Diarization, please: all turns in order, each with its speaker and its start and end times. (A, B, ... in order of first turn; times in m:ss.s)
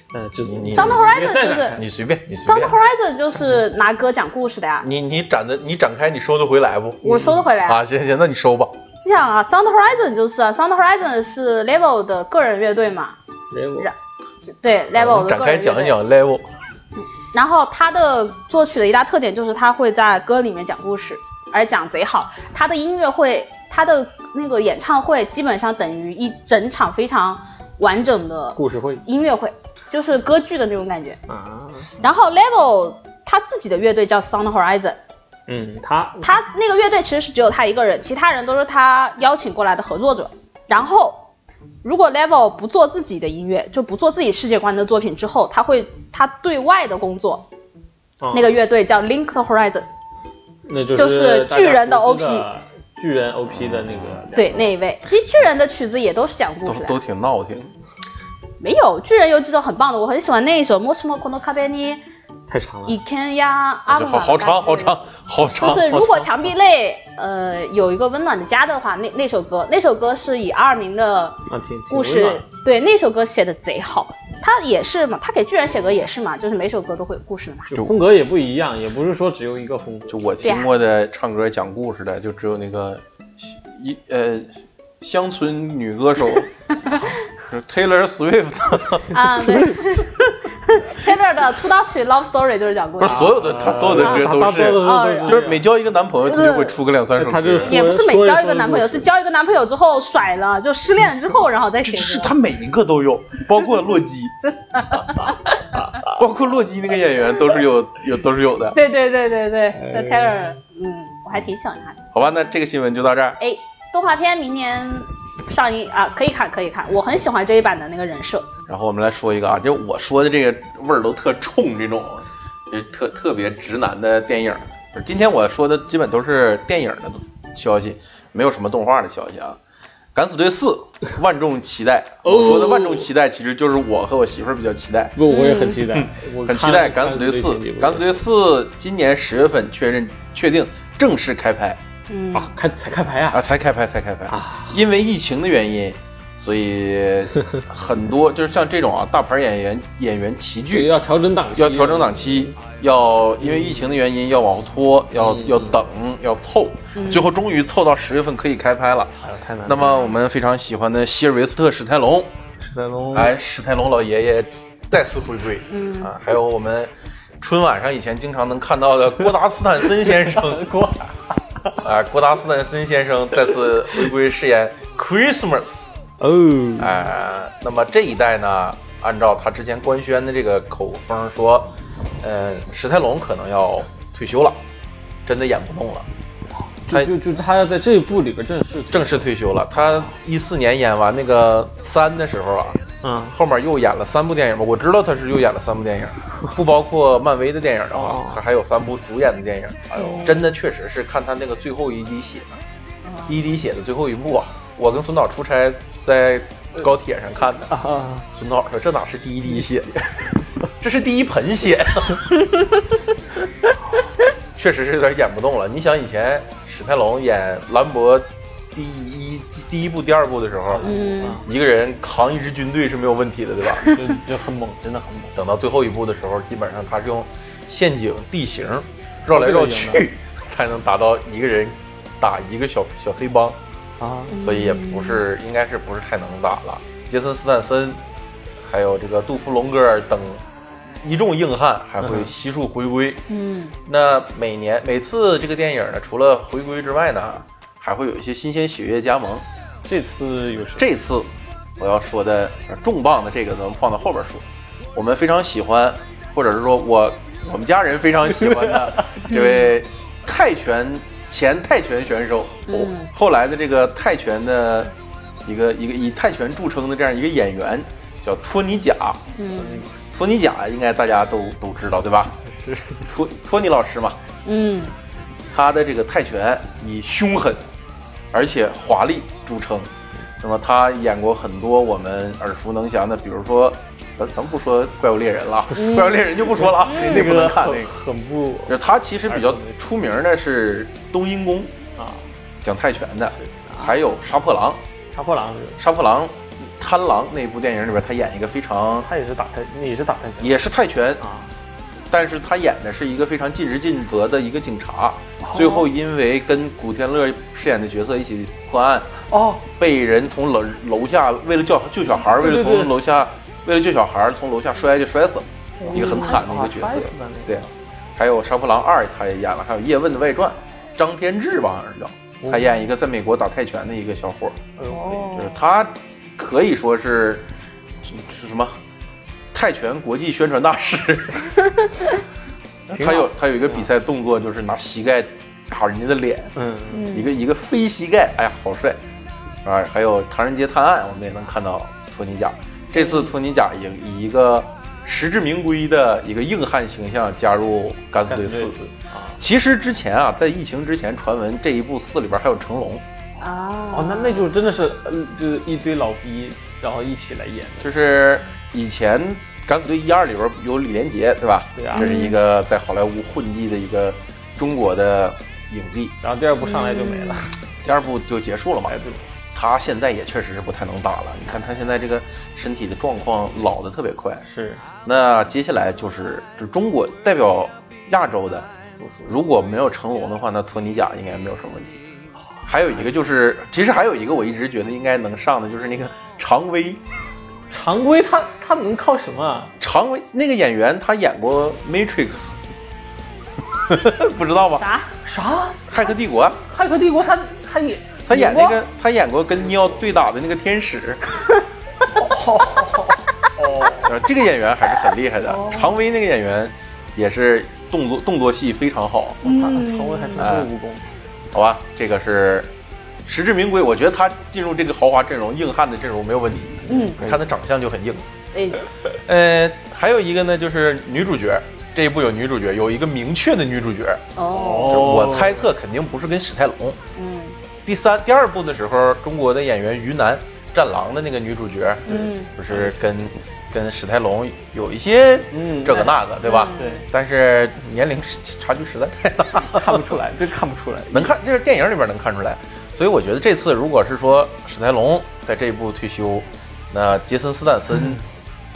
0:00.1-0:01.8 A
0:00.4-0:02.8 B
0:00.7-0:01.8 C
0:02.4-0:04.9 C
0:04.8-0:08.8 B
0:07.0-0:07.4 A
0:07.0-0:07.8 C
0:09.0-0:13.2 C
0:13.5-0:13.9 A
0:14.5-0:16.0 C
0:14.9-0:16.5 B
0:17.3-0:31.2 C
0:28.6-0:29.0 A
0:31.3-0:31.9 A
0:32.0-0:35.0 C
0:35.5-0:36.4 A
0:36.2-0:41.3 C
0:41.8-0:47.5 C
0:48.2-0:48.6 A
0:48.3-0:49.9 C
0:50.7-0:54.7 A
0:51.0-0:52.5 C
0:53.6-0:54.2 B
0:54.3-0:57.0 C
0:56.6-0:57.7 B
0:58.6-1:02.0 C
1:02.5-1:03.0 A
1:02.9-1:05.0 C
1:03.9-1:06.3 B
1:05.6-1:11.4 C
1:11.5-1:12.4 A
1:11.9-1:17.8 C
1:17.7-1:20.5 A
1:20.1-1:26.5 B
1:20.4-1:20.7 C
1:27.4-1:29.1 B
1:29.1-1:33.3 C
1:29.3-1:30.0 A
1:33.0-1:37.7 B
1:33.0-1:35.6 A
1:33.9-1:35.5 C
1:36.3-1:36.7 C
1:37.2-1:39.1 A
1:37.6-1:42.3 C
1:41.8-1:44.4 B
1:44.8-1:45.6 C
1:46.0-1:48.8 B
1:48.7-1:52.0 C
1:49.7-1:50.4 A
1:52.1-1:53.4 B
1:53.4-1:58.5 C
1:58.7-2:09.6 B
2:10.1-2:15.2 B
2:12.2-2:13.1 A
2:15.2-2:18.2 A
2:15.3-2:15.8 C
2:15.9-2:21.8 B
2:22.1-2:22.5 C
2:22.3-2:23.4 A
2:23.3-2:31.0 B
2:24.3-2:24.8 A
2:30.7-2:32.6 A
2:31.6-2:42.3 B
2:33.4-2:33.9 A
2:35.2-2:35.8 A
2:37.0-2:37.3 C
2:39.2-2:40.0 A
2:42.6-2:43.3 A
2:43.1-2:50.7 B
2:45.7-2:46.1 C
2:50.0-2:51.8 A
2:51.8-2:55.9 B
2:56.2-2:57.0 A
2:56.8-3:04.6 B
3:05.3-3:06.1 B
3:06.6-3:09.3 A
3:08.9-3:22.6 B
3:13.0-3:13.4 A
3:17.9-3:18.4 A
3:20.0-3:20.4 C
3:20.0-3:20.3 A
3:23.1-3:23.4 C
3:23.3-3:30.1 B
3:27.7-3:28.3 A
3:30.8-3:32.3 B
3:34.6-3:43.9 B
3:40.7-3:41.4 A
3:40.8-3:41.4 C
3:43.8-3:45.4 A
3:45.4-3:53.6 B
3:49.3-3:50.1 A
3:54.0-3:54.4 A
3:54.3-3:55.2 C
3:54.4-3:58.0 B
3:58.6-4:00.4 B
4:01.0-4:03.2 B
4:02.0-4:02.3 A
4:03.3-4:03.8 C
4:03.9-4:09.4 B
4:09.8-4:10.9 A
4:10.8-4:24.9 B
4:18.3-4:19.3 A
4:19.3-4:19.8 C
4:22.7-4:23.1 C
4:25.4-4:29.2 B
4:29.4-4:29.8 C
4:29.6-4:29.9 A
4:30.1-4:32.4 B
4:32.5-4:33.0 A
4:33.0-4:34.2 B
4:34.4-4:35.0 C
4:35.5-4:37.6 B
4:38.3-4:47.9 B
4:45.7-4:46.3 C
4:46.5-4:49.9 A
4:46.8-4:47.3 C
4:48.7-4:51.8 B
4:52.0-4:52.2 A
4:52.6-4:54.8 B
4:53.4-4:53.7 A
4:55.1-4:55.8 A
4:55.8-4:59.1 B
4:59.0-5:00.6 A
5:00.4-5:01.2 B
5:01.2-5:01.5 A
5:02.1-5:24.6 B
5:05.4-5:05.9 A
5:09.3-5:09.6 A
5:12.3-5:13.0 A
5:15.8-5:17.7 A
5:15.8-5:16.4 C
5:22.4-5:22.7 A
5:24.8-5:25.4 A
5:24.9-5:25.5 C
5:25.3-5:27.5 B
5:28.0-5:28.8 B
5:29.5-5:31.5 B
5:32.9-5:33.9 A
5:33.0-5:36.5 B
5:36.6-5:37.1 A
5:36.9-5:37.4 C
5:37.1-5:39.0 B
5:39.6-5:48.8 B
5:43.0-5:43.2 C
5:48.3-5:49.4 A
5:49.4-5:53.0 B
5:53.4-5:54.5 C
5:53.9-5:57.9 A
5:57.8-6:06.2 B
6:01.8-6:02.1 A
6:02.0-6:02.4 C
6:06.2-6:07.5 A
6:06.6-6:07.5 C
6:07.8-6:09.0 B
6:08.9-6:09.3 A
6:09.5-6:14.4 B
6:14.5-6:14.8 A
6:15.0-6:18.7 B
6:19.0-6:19.3 A
6:19.2-6:22.0 B
6:22.5-6:23.0 A
6:22.6-6:27.0 B
6:27.7-6:29.7 A
6:29.8-6:32.6 B
6:33.9-6:34.9 B
6:34.8-6:35.1 C
6:35.2-6:35.9 A
6:35.9-6:36.6 B
6:36.6-6:38.8 A
6:38.3-6:41.2 B
6:39.6-6:40.1 A
6:42.2-6:44.1 A
6:44.0-6:49.4 B
6:45.5-6:45.9 C
6:49.4-6:51.1 A
6:49.4-6:50.5 C
6:50.4-6:50.7 B
6:51.5-6:52.7 B
6:53.3-6:58.3 B
6:56.9-6:57.2 C
6:56.9-6:57.4 A
6:58.5-6:58.8 C
6:59.3-7:04.2 B
7:04.4-7:05.1 C
7:04.5-7:05.7 A
7:04.9-7:07.0 B
7:07.2-7:07.6 C
7:07.8-7:20.2 B
7:12.1-7:12.5 C
7:12.1-7:13.0 A
7:15.5-7:16.2 A
7:16.4-7:17.0 C
7:16.7-7:17.0 A
7:19.6-7:21.3 A
7:21.1-7:28.2 B